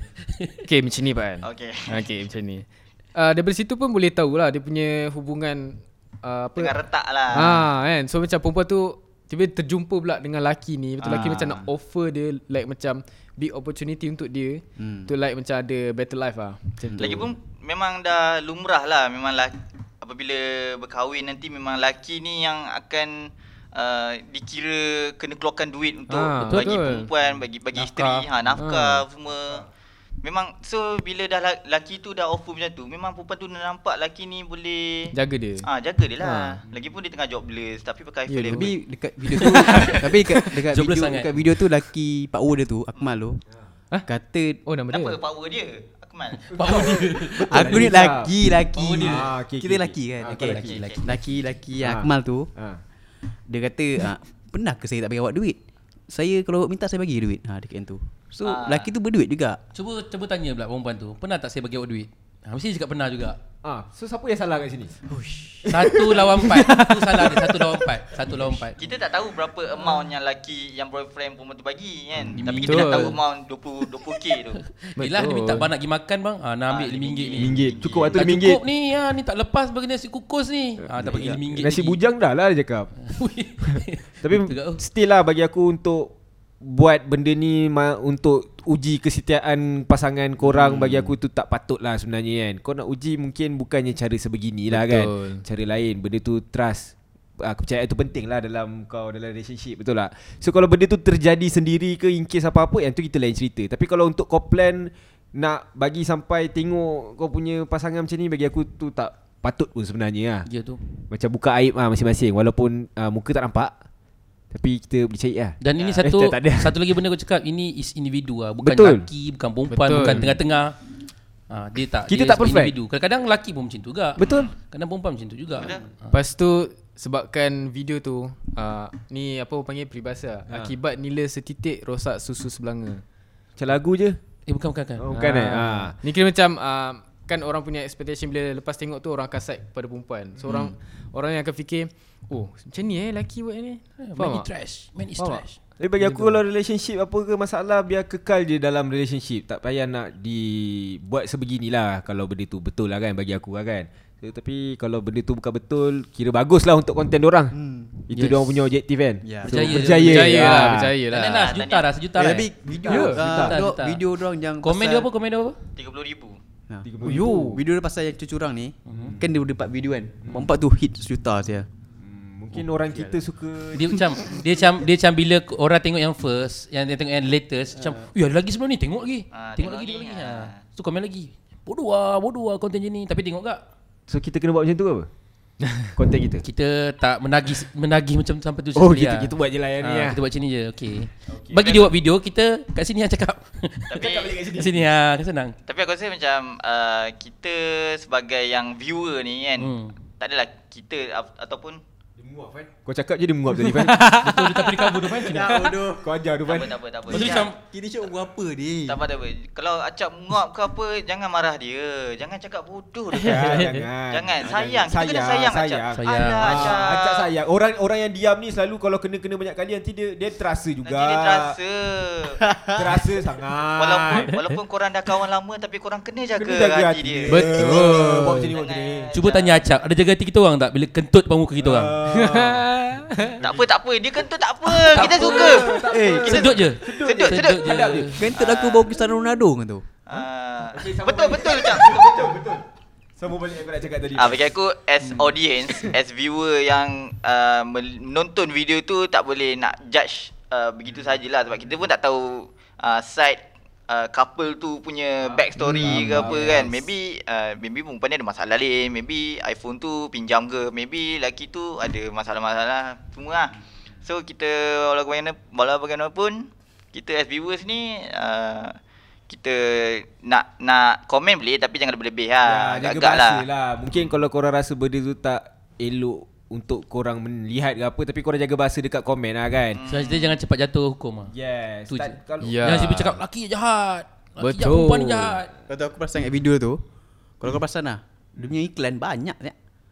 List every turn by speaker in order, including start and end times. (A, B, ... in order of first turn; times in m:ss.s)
0:00.6-0:06.8 A
0:01.4-0:02.0 B
0:06.6-0:07.5 B
0:07.3-0:17.3 A
0:11.0-0:11.6 C
0:14.8-0:15.1 C
0:16.9-0:17.2 C
0:17.0-0:29.6 B
0:26.1-0:27.1 A
0:26.5-0:26.8 D
0:27.8-0:28.3 D
0:28.6-0:29.0 A
0:30.2-0:35.1 B
0:35.1-0:35.6 A
0:35.6-0:38.7 B
0:36.2-0:36.6 A
0:38.3-0:38.7 A
0:38.5-0:43.4 C
0:39.3-0:41.5 D
0:39.4-0:40.0 A
0:44.1-0:44.6 C
0:44.6-0:45.2 A
0:44.9-0:47.1 B
0:46.5-0:47.9 D
0:46.6-0:48.3 E
0:47.4-0:52.5 C
0:48.7-0:49.3 D
0:49.0-0:50.7 E
0:50.2-0:51.1 D
0:50.5-0:51.0 B
0:51.8-0:52.8 E
0:53.5-0:59.6 C
0:58.4-0:58.9 B
0:59.7-1:03.4 D
1:03.6-1:04.9 E
1:05.1-1:07.6 A
1:05.7-1:08.8 D
1:08.8-1:14.6 B
1:12.2-1:12.5 E
1:12.4-1:13.2 D
1:12.6-1:13.2 A
1:14.9-1:22.0 D
1:15.0-1:15.7 A
1:16.7-1:18.2 B
1:17.4-1:18.6 E
1:20.9-1:22.9 E
1:21.1-1:21.4 C
1:23.0-1:24.8 D
1:24.2-1:50.5 E
1:30.7-1:31.0 C
1:34.7-1:35.4 A
1:50.5-1:50.8 D
1:51.1-1:53.7 E
1:54.5-1:56.8 E
1:55.6-2:00.8 D
1:55.8-1:56.1 B
1:58.6-1:59.1 E
1:59.7-2:00.3 A
2:00.0-2:00.4 E
2:01.5-2:06.1 D
2:02.1-2:02.7 E
2:04.2-2:04.5 E
2:04.2-2:04.5 B
2:05.5-2:05.8 B
2:06.1-2:13.0 A
2:13.6-2:14.2 E
2:14.5-2:15.0 D
2:15.0-2:16.0 E
2:15.1-2:24.5 A
2:20.4-2:20.7 E
2:24.0-2:25.5 D
2:25.2-2:26.4 A
2:25.8-2:37.5 E
2:37.5-2:38.0 C
2:38.1-2:40.9 E
2:38.1-2:38.6 D
2:39.2-2:40.0 C
2:39.4-2:40.6 D
2:40.0-2:41.5 A
2:41.1-2:44.0 D
2:41.3-2:41.9 B
2:42.1-2:45.1 C
2:42.8-2:43.6 E
2:42.8-2:43.2 A
2:44.6-2:45.6 D
2:45.8-2:46.4 B
2:46.7-2:51.7 C
2:46.8-2:47.6 E
2:48.9-2:49.2 D
2:50.2-2:50.5 E
2:52.0-2:54.1 E
2:53.7-3:03.6 D
2:59.3-3:00.6 B
3:04.1-3:05.1 E
3:05.9-3:06.4 E
3:06.4-3:15.5 D
3:08.7-3:10.2 E
3:11.3-3:11.7 E
3:11.6-3:11.9 B
3:13.9-3:14.3 B
3:14.0-3:14.9 E
3:15.6-3:21.8 B
3:19.6-3:19.9 D
3:22.2-3:24.2 E
3:23.8-3:24.5 A
3:23.9-3:25.7 D
3:25.2-3:26.1 C
3:25.9-3:26.8 E
3:26.4-3:27.5 B
3:27.1-3:27.6 D
3:27.1-3:29.0 C
3:28.8-3:37.3 B
3:33.1-3:41.6 E
3:33.3-3:33.8 A
3:35.9-3:36.9 D
3:40.8-3:42.4 B
3:42.4-3:43.0 C
3:42.7-3:44.3 E
3:43.8-3:47.9 B
3:46.4-3:49.1 E
3:47.3-3:48.5 A
3:48.5-3:49.6 B
3:49.1-3:51.9 D
3:51.6-3:52.7 E
3:52.1-3:53.4 A
3:53.4-3:53.7 E
3:53.4-3:59.1 B
3:54.9-3:58.2 E
3:54.9-3:58.2 D
3:55.8-3:56.3 C
3:58.2-4:00.0 C
4:00.1-4:02.3 B
4:00.7-4:02.6 E
4:03.2-4:04.5 E
4:04.2-4:28.8 B
4:05.6-4:05.9 E
4:15.8-4:16.5 A
4:15.8-4:16.6 D
4:29.3-4:33.4 B
4:32.4-4:39.8 E
4:39.7-4:40.4 B
4:39.9-4:41.3 D
4:41.3-4:43.1 E
4:41.9-4:45.5 D
4:42.4-4:43.1 A
4:44.4-4:45.4 A
4:45.7-4:46.8 C
4:47.4-4:49.5 C